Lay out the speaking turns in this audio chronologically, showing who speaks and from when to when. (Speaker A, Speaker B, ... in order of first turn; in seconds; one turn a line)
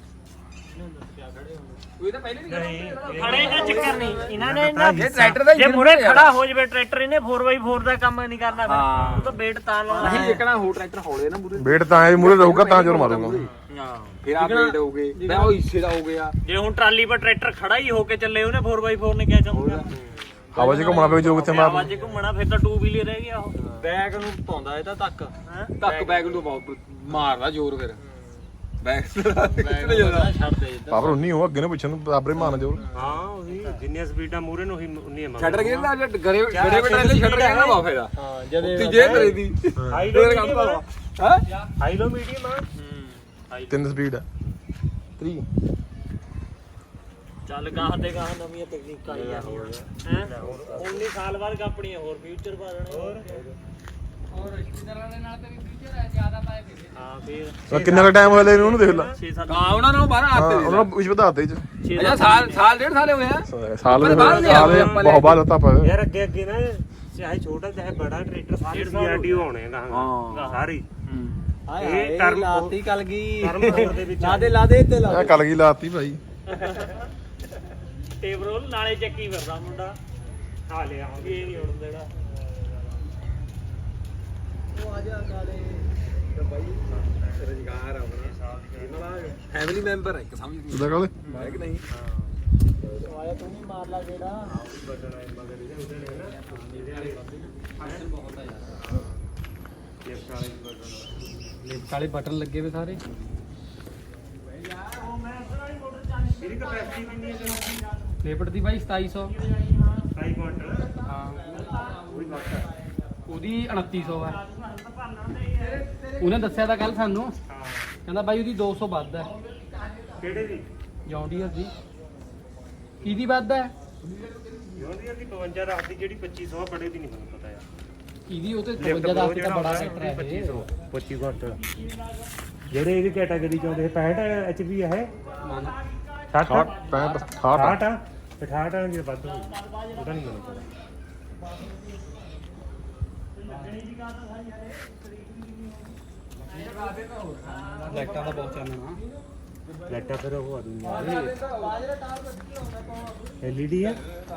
Speaker A: 0.7-1.8
Speaker B: 2.0-4.3
Speaker C: 2.5-5.4
Speaker D: 3.1-10.4
Speaker B: 5.0-6.4
Speaker B: 8.6-9.4
Speaker A: 9.9-10.4
Speaker B: 9.9-13.5
Speaker E: 11.6-13.4
Speaker D: 13.4-14.1
Speaker B: 14.2-16.4
Speaker A: 14.3-15.4
Speaker F: 15.2-15.5
Speaker D: 16.4-19.9
Speaker B: 19.5-19.9
Speaker E: 20.6-21.9
Speaker D: 20.6-23.6
Speaker A: 23.8-26.4
Speaker D: 25.5-25.8
Speaker B: 25.8-28.0
Speaker B: 28.8-30.4
Speaker A: 29.4-31.2
Speaker D: 29.8-30.5
Speaker E: 30.9-32.8
Speaker A: 32.8-33.1
Speaker C: 33.0-35.9
Speaker B: 35.4-41.5
Speaker C: 36.5-37.8
Speaker A: 38.2-39.4
Speaker D: 39.0-39.3
Speaker C: 39.9-40.8
Speaker C: 41.8-42.7
Speaker B: 42.8-43.1
Speaker D: 43.5-43.9
Speaker E: 43.7-44.2
Speaker E: 45.2-45.5
Speaker D: 47.5-53.3
Speaker C: 49.3-51.0
Speaker C: 52.9-53.2
Speaker F: 54.3-56.9
Speaker D: 57.0-57.7
Speaker E: 57.7-59.1
Speaker C: 57.7-59.2
Speaker D: 58.8-60.2
Speaker B: 59.5-60.9
Speaker E: 60.3-61.6
Speaker D: 61.8-62.6
Speaker B: 61.9-65.4
Speaker E: 63.5-66.0
Speaker C: 64.0-70.8
Speaker D: 68.7-69.5
Speaker B: 69.9-70.5
Speaker D: 70.3-70.7
Speaker B: 71.1-71.4
Speaker A: 71.7-75.4
Speaker C: 71.8-74.7
Speaker E: 75.0-76.2
Speaker D: 76.5-76.9
Speaker D: 78.2-80.0
Speaker C: 80.7-81.7
Speaker D: 81.2-82.1
Speaker A: 84.7-85.9
Speaker B: 86.4-86.8
Speaker C: 86.9-87.5
Speaker B: 87.4-88.2
Speaker C: 88.2-89.1
Speaker B: 88.8-91.8
Speaker E: 90.7-91.2
Speaker C: 91.3-92.3
Speaker A: 93.0-94.4
Speaker C: 94.5-98.1
Speaker F: 96.5-98.8
Speaker C: 98.8-99.1
Speaker C: 100.1-101.5
Speaker F: 101.6-103.0
Speaker D: 104.8-107.8
Speaker C: 106.4-107.8
Speaker F: 108.2-109.3
Speaker D: 109.4-110.1
Speaker C: 110.2-112.7
Speaker F: 111.1-111.4
Speaker D: 111.6-112.6
Speaker F: 113.3-114.4
Speaker D: 114.1-115.9
Speaker B: 115.6-116.7
Speaker F: 116.2-117.3
Speaker C: 117.5-117.9
Speaker F: 118.1-119.3
Speaker C: 120.2-120.7
Speaker F: 121.1-121.7
Speaker F: 123.0-123.7
Speaker B: 124.1-124.7
Speaker C: 124.7-127.7
Speaker F: 128.3-130.7
Speaker C: 128.8-131.6
Speaker C: 132.7-135.1
Speaker F: 135.4-135.7
Speaker C: 136.3-136.7
Speaker E: 136.4-137.8
Speaker D: 136.8-137.3
Speaker C: 137.5-140.7
Speaker D: 139.5-140.7
Speaker D: 143.4-144.7
Speaker B: 146.5-148.2
Speaker D: 147.5-148.0
Speaker F: 147.9-149.0
Speaker C: 149.9-151.3
Speaker B: 150.8-151.9
Speaker A: 151.4-153.1
Speaker C: 153.4-154.0